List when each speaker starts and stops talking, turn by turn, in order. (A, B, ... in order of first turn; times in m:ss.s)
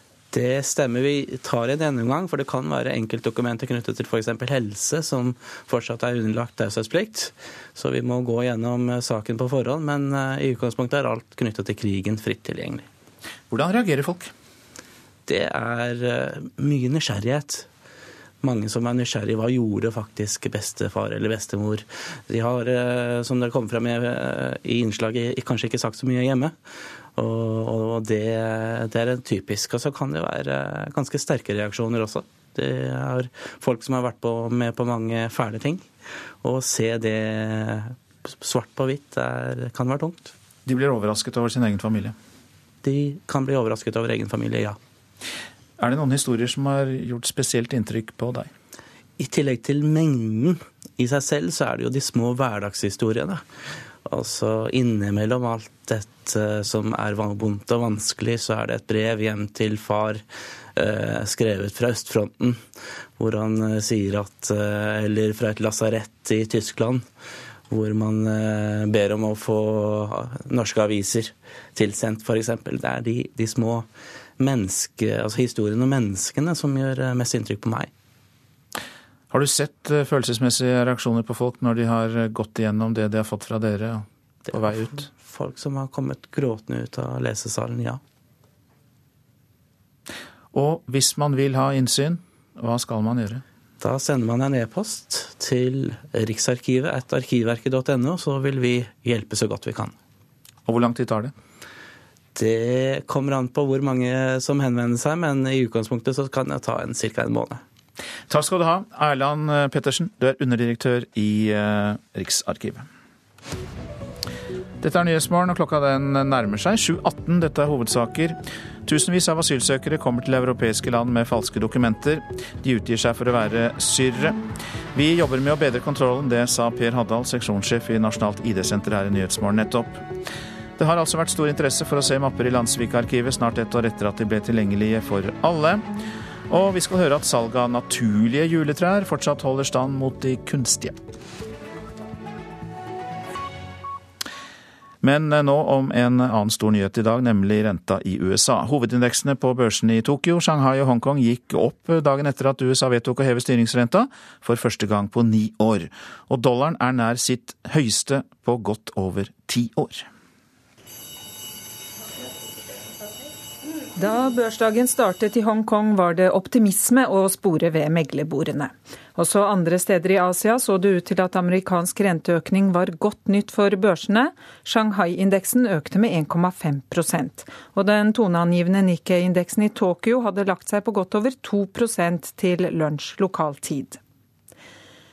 0:00.3-0:12.9 A
0:13.5-0:14.3 B
0:15.3-0:17.7 A
0:18.4-0:26.6 A
0:27.2-0:35.9 A
0:36.4-0:40.3 A
0:40.6-0:42.1 B
0:42.8-0:44.8 A
0:45.8-0:48.5 B
0:49.2-0:53.4 A
0:54.0-1:00.2 A
1:00.8-1:02.6 A
1:03.2-1:07.0 A
1:07.7-1:13.9 A
1:14.4-1:17.9 A
1:19.3-1:25.0 B
1:24.5-1:28.0 A
1:30.5-1:33.4 B
1:33.8-1:40.0 A
1:40.7-1:41.3 B
1:42.4-1:47.6 A
1:48.3-1:52.9 B
1:54.8-2:04.4 B
2:05.0-2:10.1 B
2:10.8-2:15.8 B
2:16.5-2:21.0 B
2:25.0-2:40.1 B
2:44.0-3:04.0 C